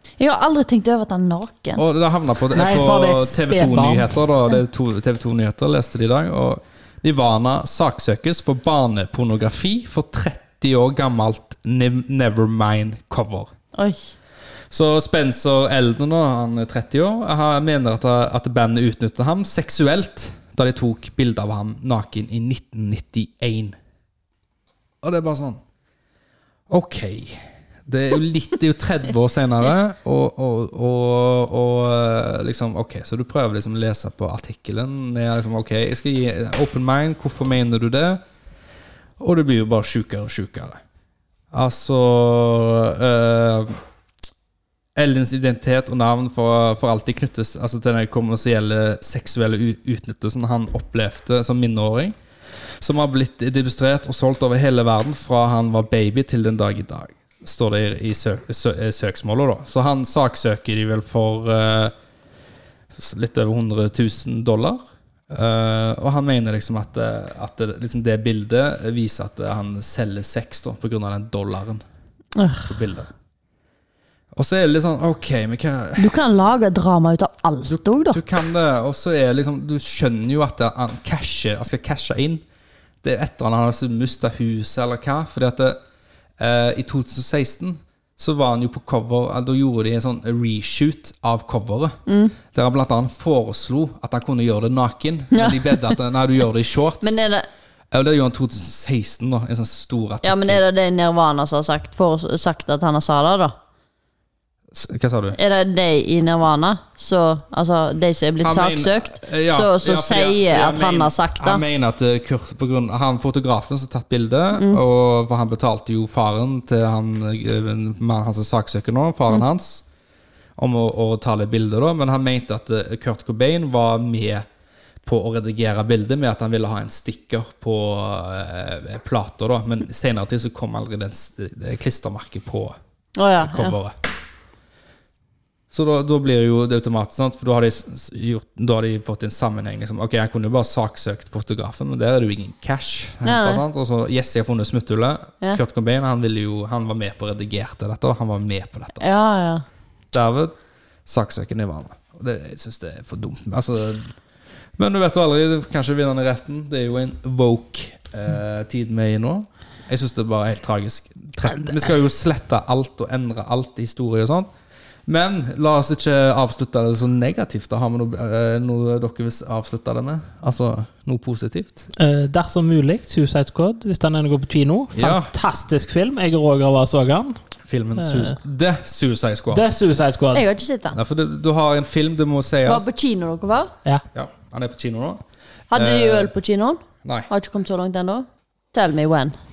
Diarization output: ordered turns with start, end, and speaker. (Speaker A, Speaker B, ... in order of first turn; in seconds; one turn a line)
Speaker A: 0.2-1.8
Speaker B: 1.8-13.5
Speaker C: 2.5-4.2
Speaker A: 13.8-14.1
Speaker B: 14.7-23.8
Speaker B: 25.0-25.6
Speaker B: 26.7-38.2
Speaker B: 39.2-40.8
Speaker B: 41.5-43.8
Speaker B: 45.0-52.1
Speaker B: 52.8-62.0
Speaker B: 62.9-64.8
Speaker B: 65.3-71.8
Speaker A: 72.3-72.7
Speaker B: 72.7-73.1
Speaker B: 74.3-76.2
Speaker A: 76.0-78.2
Speaker B: 77.6-82.4
Speaker B: 83.0-85.8
Speaker B: 86.4-92.0
Speaker A: 92.1-92.4
Speaker B: 92.5-97.2
Speaker A: 95.3-95.9
Speaker A: 97.0-97.5
Speaker B: 97.9-100.6
Speaker A: 100.2-103.5
Speaker B: 104.7-105.4
Speaker A: 105.3-111.6
Speaker B: 108.4-119.9
Speaker A: 114.5-114.8
Speaker B: 120.6-124.5
Speaker B: 125.0-132.8
Speaker A: 133.2-133.8
Speaker B: 133.4-133.9
Speaker B: 135.7-149.1
Speaker A: 143.2-143.6
Speaker A: 149.0-149.6
Speaker B: 150.1-154.1
Speaker B: 154.8-164.5
Speaker B: 165.1-171.9
Speaker C: 171.9-177.4
Speaker B: 174.9-175.3
Speaker B: 177.6-179.7
Speaker C: 178.0-178.4
Speaker C: 179.5-180.4
Speaker A: 180.3-181.0
Speaker B: 180.9-182.9
Speaker A: 182.7-183.7
Speaker B: 184.1-186.3
Speaker A: 185.7-189.3
Speaker B: 187.0-187.3